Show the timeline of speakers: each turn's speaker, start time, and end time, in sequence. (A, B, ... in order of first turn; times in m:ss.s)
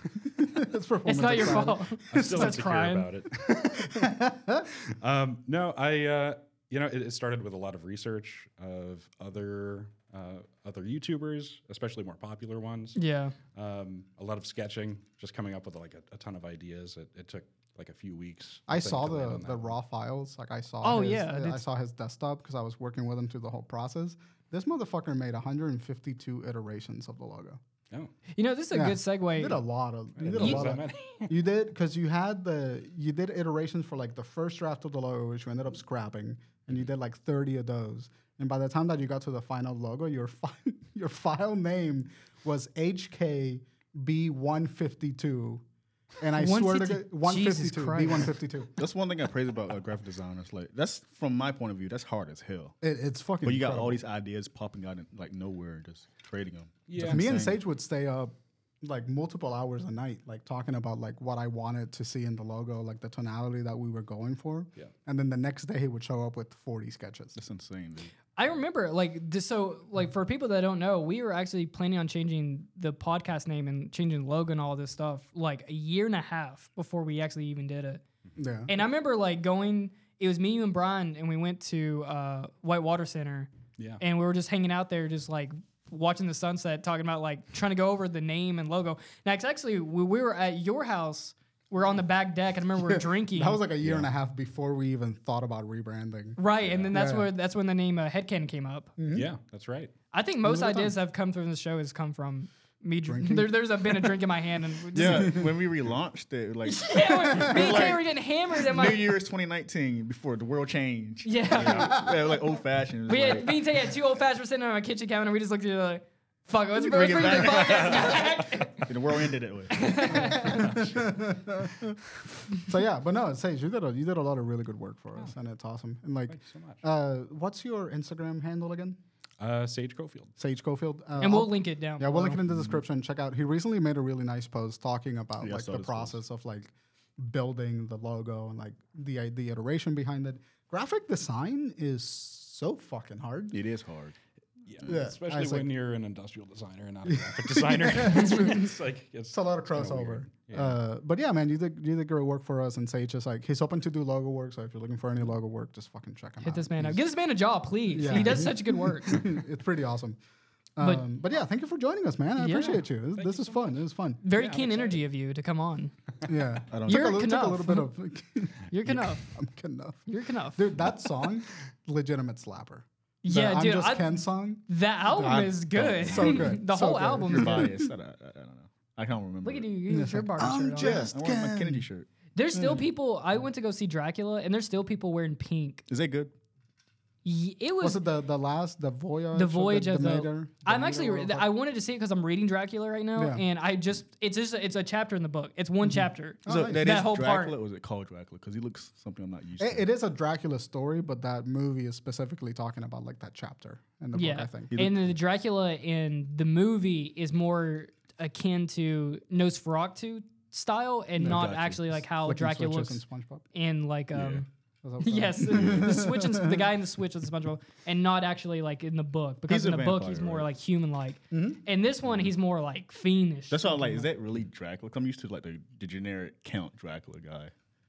0:00.2-0:02.6 A
0:01.0-0:03.1 B
0:02.1-0:03.8 C
0:03.4-0:04.7 A
0:04.8-0:13.0 C
0:13.0-0:13.3 B
0:13.5-0:19.7 C
0:18.7-0:27.6 A
0:20.8-0:21.6 B
0:28.4-0:29.6 B
0:28.7-0:45.6 A
0:30.2-0:31.3 C
0:46.2-0:48.7 A
0:46.4-0:48.3 B
0:48.8-0:52.8 D
0:52.8-0:54.0 A
0:53.4-0:57.6 D
0:56.9-0:57.4 C
0:57.0-1:07.4 A
1:07.4-1:08.1 D
1:08.4-1:18.0 B
1:18.4-1:18.7 A
1:18.7-1:23.5 B
1:24.0-1:33.6 B
1:32.8-1:36.4 A
1:33.8-1:34.1 D
1:36.4-1:38.9 B
1:36.6-1:37.0 C
1:36.9-1:37.3 A
1:39.0-1:39.3 A
1:39.1-1:39.9 C
1:40.1-1:45.4 B
1:40.4-1:41.0 A
1:43.0-1:44.1 A
1:44.9-1:53.6 D
1:46.6-1:49.2 B
1:51.2-1:52.0 B
1:51.6-1:52.3 A
1:53.1-1:58.9 B
1:56.8-2:00.8 D
1:57.5-1:58.6 C
1:59.7-2:00.7 B
2:00.1-2:09.0 A
2:06.3-2:06.8 C
2:09.4-2:10.3 C
2:10.4-2:23.6 A
2:11.2-2:12.4 B
2:12.5-2:12.8 D
2:15.4-2:16.2 D
2:23.5-2:24.1 D
2:24.7-2:30.8 C
2:24.8-2:25.7 A
2:27.1-2:28.7 A
2:29.3-2:37.0 A
2:36.4-2:39.2 B
2:37.9-2:40.2 A
2:40.8-2:44.2 A
2:42.4-2:42.8 B
2:42.6-2:43.7 C
2:44.2-2:45.9 B
2:44.3-2:44.9 C
2:46.2-2:57.9 A
2:46.7-2:47.2 D
2:46.8-2:47.9 B
2:48.7-2:49.2 B
2:50.1-2:50.7 B
2:53.2-2:57.7 B
2:55.1-2:56.6 D
2:57.3-2:59.7 D
2:59.4-3:01.0 B
2:59.9-3:01.8 A
3:00.8-3:02.1 D
3:02.4-3:05.8 B
3:02.5-3:02.8 A
3:05.9-3:06.3 D
3:07.2-3:08.0 B
3:07.8-3:11.5 A
3:09.3-3:17.6 B
3:13.2-3:13.4 A
3:15.9-3:16.8 A
3:16.4-3:19.8 D
3:19.6-3:24.7 A
3:24.1-3:33.0 B
3:24.7-3:25.1 D
3:31.2-3:31.5 A
3:31.2-3:32.0 D
3:32.2-3:33.4 A
3:33.5-3:34.5 B
3:34.1-3:34.4 D
3:34.8-3:36.7 A
3:35.0-3:44.1 B
3:35.5-3:36.0 D
3:39.5-3:40.5 D
3:41.3-3:41.6 A
3:43.5-3:47.5 D